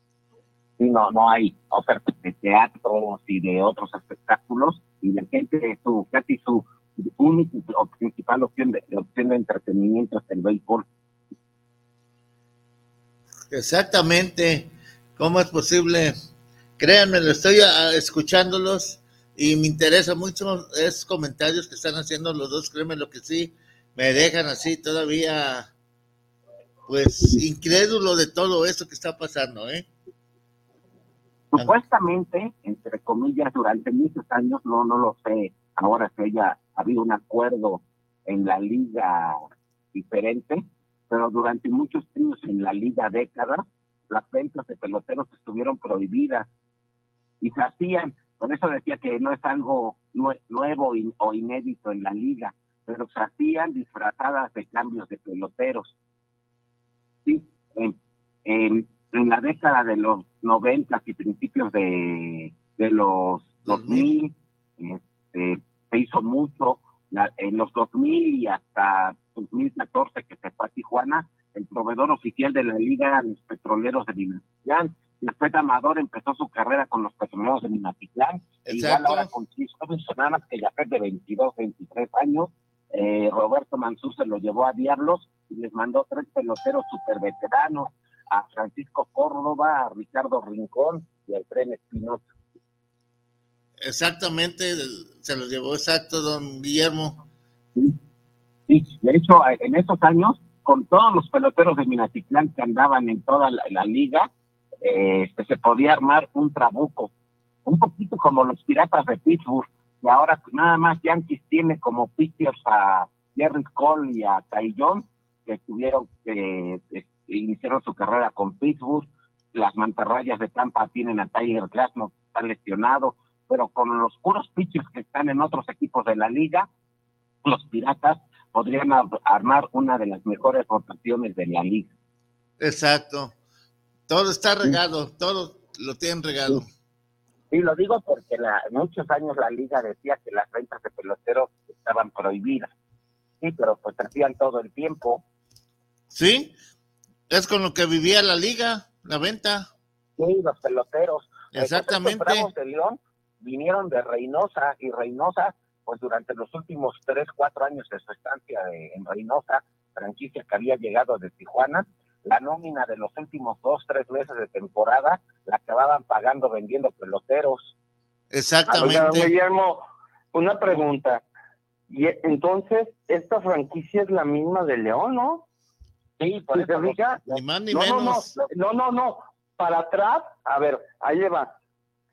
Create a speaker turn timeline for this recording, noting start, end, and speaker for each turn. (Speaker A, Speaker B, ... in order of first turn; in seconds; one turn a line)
Speaker A: 0.8-10.8
Speaker B: 13.5-16.1
Speaker B: 16.8-25.7
Speaker B: 26.9-29.9
Speaker A: 31.5-39.4
Speaker A: 39.9-46.5
Speaker A: 47.4-55.9
Speaker A: 57.2-92.2
Speaker B: 63.6-64.1
Speaker B: 78.6-79.3
Speaker B: 93.8-97.2
Speaker A: 98.7-104.3
Speaker A: 104.8-107.1
Speaker A: 107.6-126.7
Speaker A: 127.4-131.9
Speaker B: 132.6-133.3
Speaker B: 134.1-136.7
Speaker A: 137.5-142.7
Speaker A: 143.4-145.2
Speaker B: 146.1-146.5
Speaker B: 147.3-149.7
Speaker A: 150.2-167.7
Speaker B: 151.5-152.5
Speaker B: 168.3-169.3
Speaker C: 168.7-171.2
Speaker C: 171.9-175.4
Speaker A: 176.2-177.4
Speaker C: 176.5-177.2
Speaker B: 177.3-178.3
Speaker C: 177.7-181.5